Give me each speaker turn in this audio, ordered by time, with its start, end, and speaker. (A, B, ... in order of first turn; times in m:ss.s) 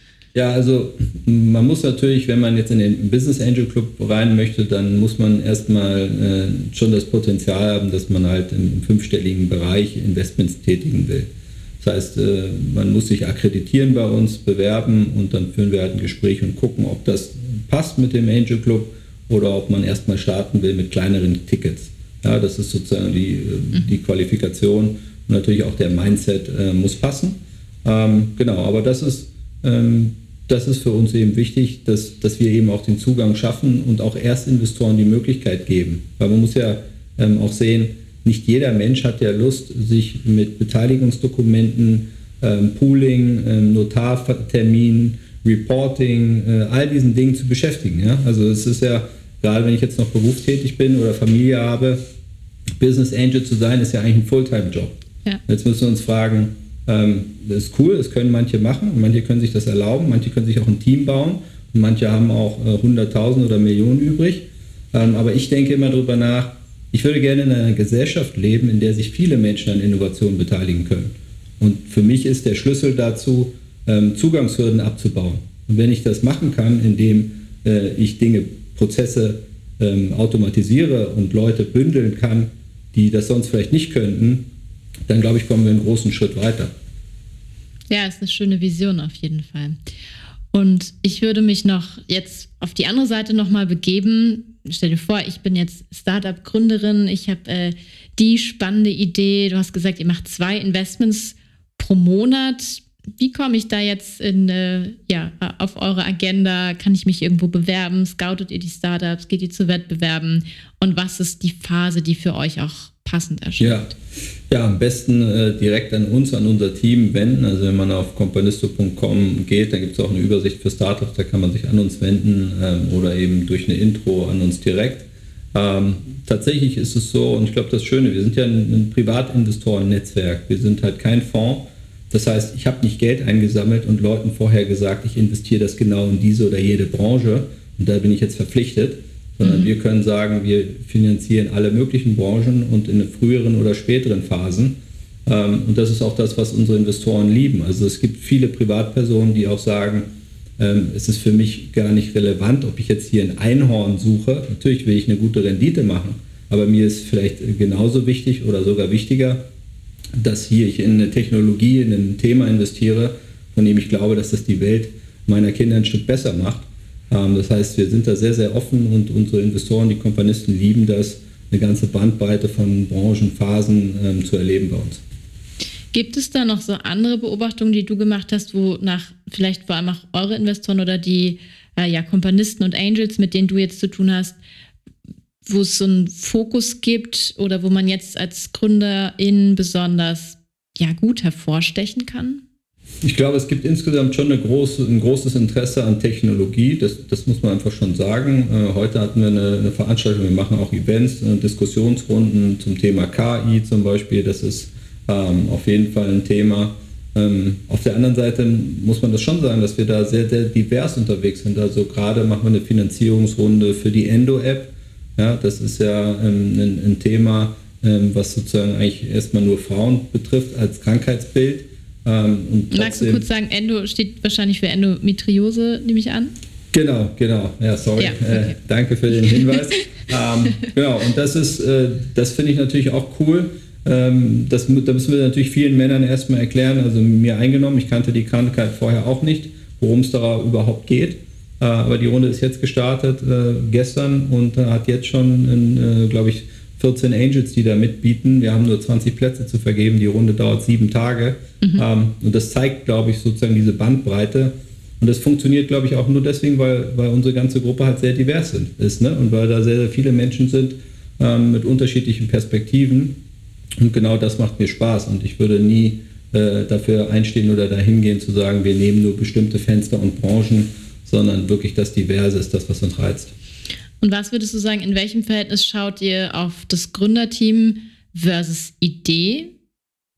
0:00.3-0:11.3 A
0:11.8-0:52.0 A
0:52.8-0:55.0 A
0:55.5-1:24.5 A
1:25.1-1:26.7 A
1:27.9-1:29.8 B
1:30.5-1:53.9 B
1:53.6-1:53.9 A
1:54.5-2:30.1 A
2:19.4-2:19.7 B
2:30.6-2:39.4 A
2:40.2-2:55.0 A
2:55.9-3:04.4 B
3:05.4-3:12.4 B
3:13.0-3:43.2 A
3:42.7-3:46.3 B
3:46.7-4:23.2 A
3:48.0-3:48.5 B
4:23.8-4:33.3 A
4:34.0-4:39.5 B